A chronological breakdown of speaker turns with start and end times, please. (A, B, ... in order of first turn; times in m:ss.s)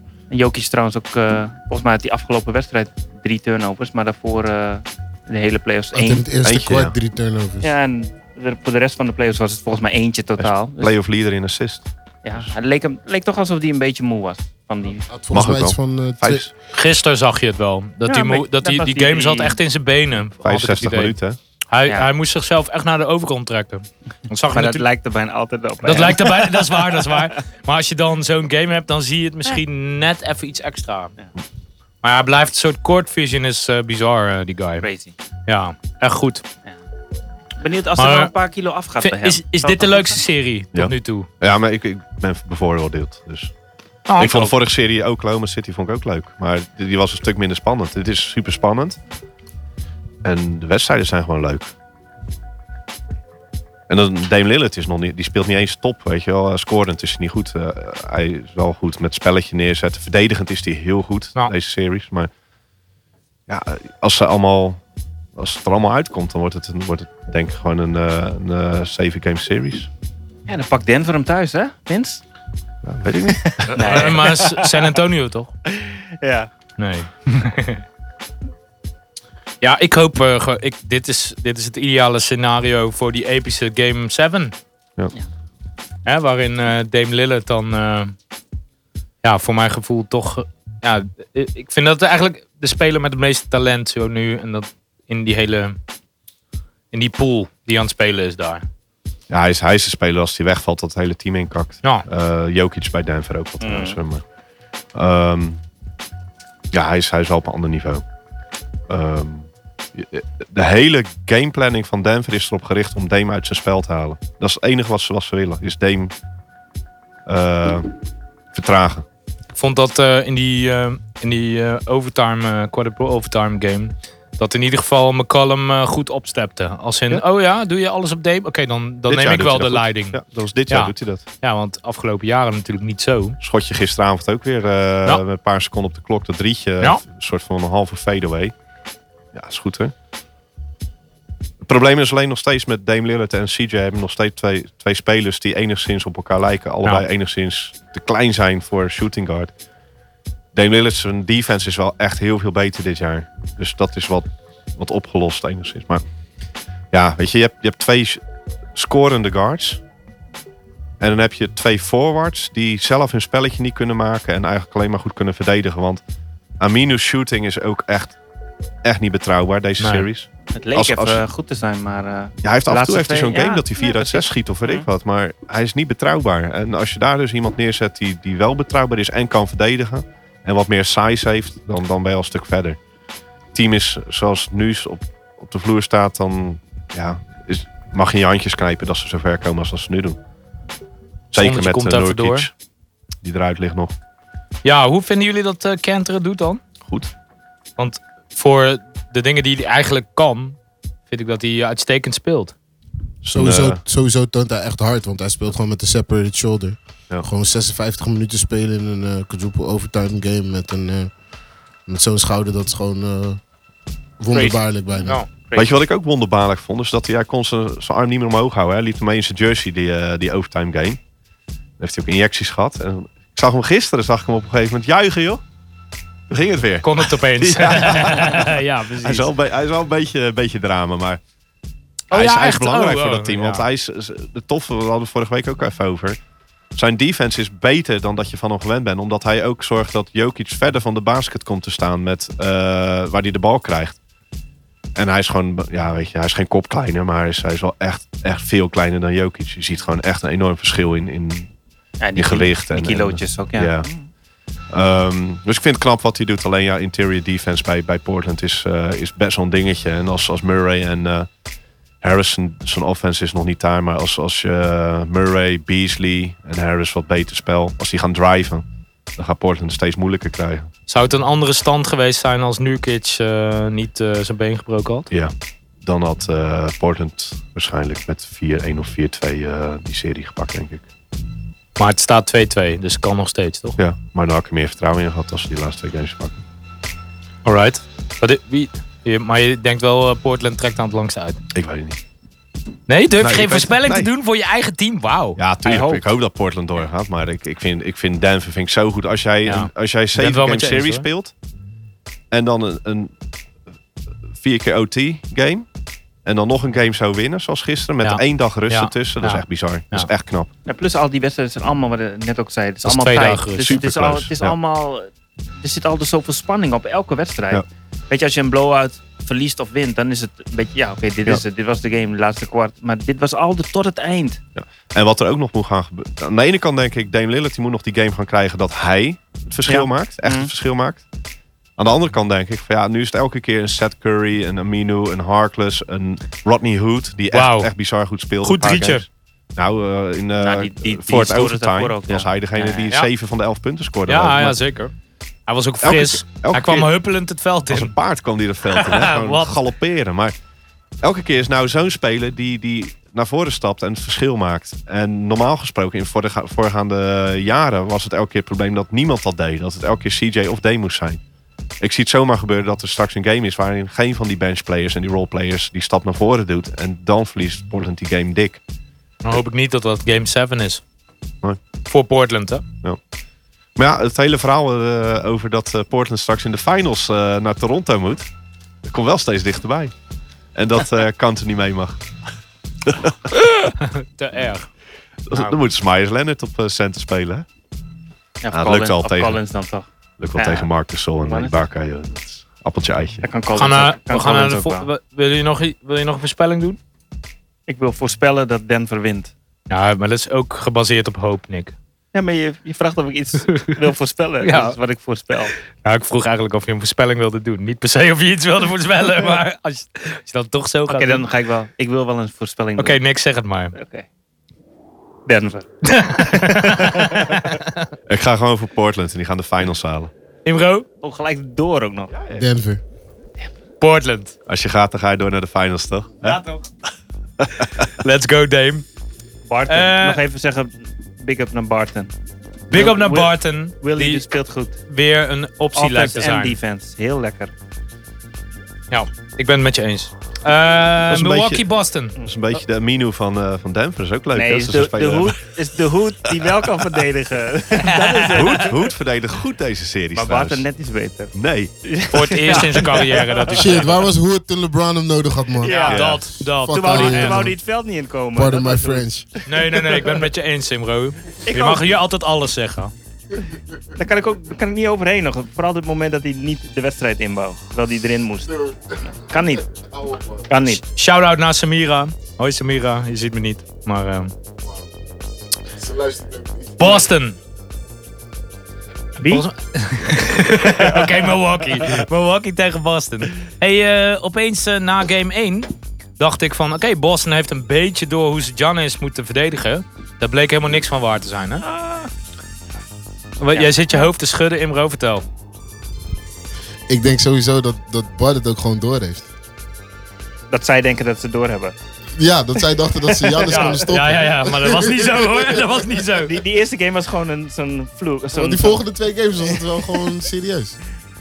0:00.3-0:06.3 A
0:05.9-0:07.7 B
0:06.4-0:06.9 C
0:07.6-0:10.9 A
0:10.4-0:12.5 C
0:12.2-0:15.1 A
0:15.1-0:16.4 B
0:15.3-0:16.5 C
0:16.7-0:21.2 D
0:18.0-0:19.6 A
0:20.4-0:21.4 C
0:21.7-0:24.8 D
0:24.5-0:26.8 A
0:25.8-0:31.1 D
0:32.0-0:34.9 D
0:34.8-0:35.1 A
0:35.5-0:36.4 D
0:37.6-0:40.2 A
0:38.0-0:38.3 D
0:39.0-0:41.3 D
0:40.7-0:43.5 C
0:44.1-0:44.5 D
0:44.2-0:49.0 C
0:50.2-0:51.7 C
0:53.9-1:02.3 C
1:03.5-1:04.8 C
1:05.4-1:09.9 C
1:10.5-1:12.2 A
1:12.8-1:14.1 C
1:13.3-1:14.9 A
1:13.7-1:15.5 D
1:15.7-1:16.5 A
1:16.8-1:17.8 D
1:19.6-1:24.5 D
1:26.0-1:28.1 D
1:29.2-1:35.8 D
1:36.9-1:38.6 D
1:39.3-1:44.2 C
1:43.6-1:44.0 A
1:44.9-1:45.6 C
1:46.7-1:48.0 C
1:48.9-1:56.1 C
1:57.2-1:57.9 C
1:58.5-1:59.0 C
1:59.5-2:13.4 D
2:09.1-2:11.2 C
2:13.4-2:18.5 C
2:19.3-2:19.9 C
2:21.6-2:29.5 C
2:30.5-2:36.0 C
2:36.9-2:38.2 C
2:38.7-2:39.8 C
2:41.0-2:46.0 C
2:46.6-2:48.2 C
2:48.8-2:51.2 C
2:49.8-2:50.1 D
2:50.5-2:54.9 A
2:52.4-3:02.8 C
3:03.5-3:10.2 C
3:11.3-3:12.5 C
3:11.4-3:12.5 D
3:13.2-3:13.9 C
3:14.6-3:16.6 D
3:16.8-3:17.1 C
3:17.8-3:20.6 D
3:21.1-3:22.5 D
3:23.2-3:23.8 C
3:23.3-3:31.1 B
3:31.8-3:33.4 B
3:34.2-3:35.2 B
3:34.3-3:34.6 A
3:35.3-3:35.7 A
3:35.6-3:41.0 C
3:41.8-3:45.4 C
3:46.3-3:51.2 C
3:46.8-3:49.3 D
3:52.1-3:53.6 D
3:52.1-3:56.2 C
3:56.7-4:04.0 C
4:05.0-4:11.5 C
4:12.0-4:14.1 A
4:12.2-4:13.9 C
4:14.7-4:21.3 C
4:22.0-4:30.7 C
4:30.9-4:35.1 D
4:35.1-4:40.8 C
4:41.8-4:43.8 D
4:43.8-4:46.4 C
4:47.4-4:51.4 D
4:51.5-4:52.0 C
4:52.9-4:55.4 D
4:53.2-4:54.1 C
4:55.4-5:01.3 C
4:55.6-4:56.0 A
4:59.4-5:01.1 D
5:02.3-5:03.1 C
5:04.3-5:05.7 C
5:06.2-5:10.5 C
5:08.0-5:10.1 D
5:10.7-5:15.1 A
5:12.8-5:13.8 D
5:13.6-5:14.5 C
5:15.6-5:24.4 A
5:24.6-5:31.0 C
5:29.7-5:30.5 A
5:31.8-5:44.6 C
5:37.3-5:37.7 D
5:38.4-5:39.0 D
5:40.4-5:42.9 A
5:44.1-5:44.9 D
5:45.5-5:47.9 D
5:45.8-5:46.9 C
5:47.7-5:50.4 C
5:48.7-5:49.5 D
5:51.0-6:01.2 C
6:01.8-6:08.6 C
6:09.2-6:10.8 D
6:11.9-6:12.6 D
6:13.8-6:18.3 C
6:18.8-6:19.9 C
6:20.5-6:22.0 C
6:22.8-6:23.2 C
6:23.3-6:24.7 D
6:25.3-6:27.4 C
6:25.3-6:25.6 D
6:28.4-6:30.7 A
6:28.5-6:29.4 C
6:30.2-6:33.2 C
6:31.2-6:31.7 A
6:33.2-6:34.9 A
6:33.6-6:36.8 D
6:37.7-6:39.3 A
6:39.7-6:41.7 D
6:42.1-6:45.5 A
6:44.4-6:44.8 D
6:45.8-6:51.2 D
6:50.9-6:53.0 A
6:52.8-6:53.7 D
6:53.7-6:54.0 A
6:55.2-6:55.7 A
6:55.8-6:57.9 D
6:56.2-6:57.5 A
6:58.1-7:00.1 C
7:00.4-7:00.8 D
7:01.0-7:02.1 A
7:02.1-7:02.4 C
7:02.3-7:02.8 B
7:03.8-7:04.3 D
7:04.5-7:06.4 C
7:06.2-7:06.6 D
7:07.4-7:07.9 C
7:08.0-7:08.8 D
7:09.5-7:12.1 A
7:09.7-7:10.2 D
7:12.7-7:14.2 D
7:12.7-7:14.8 A
7:14.9-7:16.6 D
7:15.8-7:17.5 A
7:18.9-7:22.2 D
7:21.1-7:21.6 C
7:22.2-7:25.4 C
7:24.3-7:28.9 A
7:27.8-7:28.6 D
7:28.4-7:30.6 C
7:30.1-7:33.8 A
7:31.3-7:31.7 C
7:32.1-7:33.9 D
7:33.5-7:37.6 B
7:35.6-7:36.0 A
7:35.7-7:37.5 D
7:35.9-7:36.2 C
7:36.7-7:40.2 A
7:38.3-7:39.3 B
7:39.4-7:42.9 D
7:41.4-7:42.0 A
7:44.0-7:49.6 A
7:48.6-7:49.0 B
7:49.8-7:50.4 B
7:50.5-7:50.8 A
7:50.9-7:54.3 D
7:55.7-7:57.1 B
7:56.8-7:57.4 D
7:59.2-7:59.4 A
7:59.2-8:11.6 D
8:00.8-8:01.1 A
8:11.6-8:12.1 A
8:13.4-8:15.2 D
8:13.5-8:14.1 A
8:16.9-8:19.3 B
8:20.5-8:21.7 A
8:22.2-8:25.6 B
8:23.1-8:23.8 A
8:23.5-8:26.4 D
8:26.3-8:28.8 A
8:28.3-8:30.8 B
8:29.5-8:30.0 A